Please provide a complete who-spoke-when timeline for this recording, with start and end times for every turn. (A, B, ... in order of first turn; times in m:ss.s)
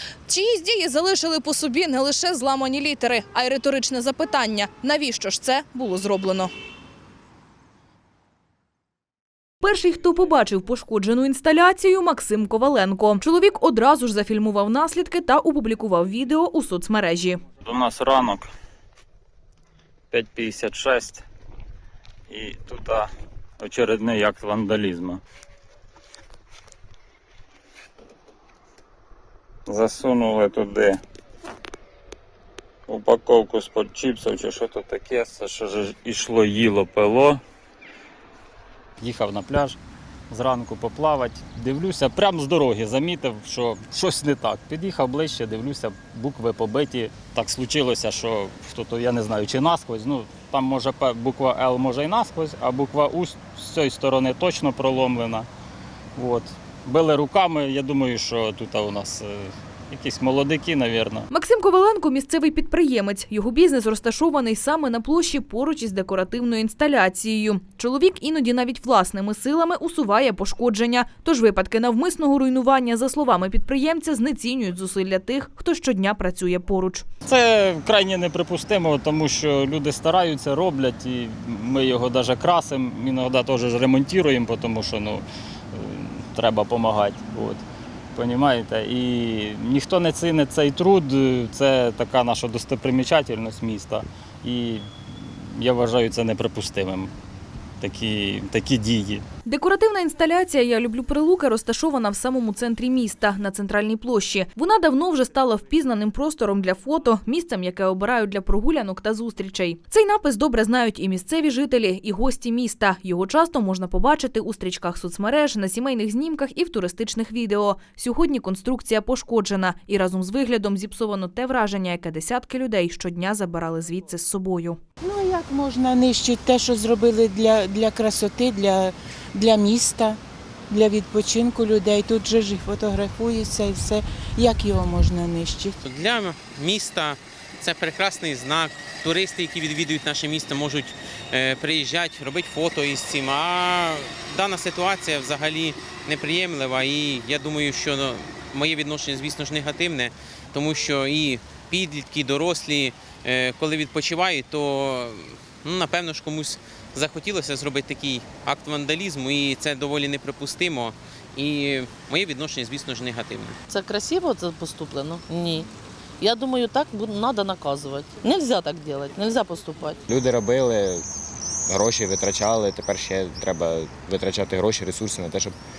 0:00.3-0:06.5 A
0:09.6-0:17.4 A
0:17.6-0:18.5 B
0:20.1-0:21.2 B
0:22.3-0:25.2 B
0:29.7-0:31.0 B
0:32.9-0:37.4 B
0:39.0-0:39.8 B
0:40.3-0:55.5 B
0:56.2-1:01.2 B
1:01.3-1:17.0 A
1:17.3-1:27.6 B
1:28.1-1:37.1 B
1:37.8-1:39.2 B
1:39.4-2:04.8 A
2:05.0-2:15.8 C
2:15.8-2:43.6 D
2:43.7-2:45.7 E
2:46.2-2:50.0 E
2:50.1-2:51.0 F
2:51.7-2:55.5 F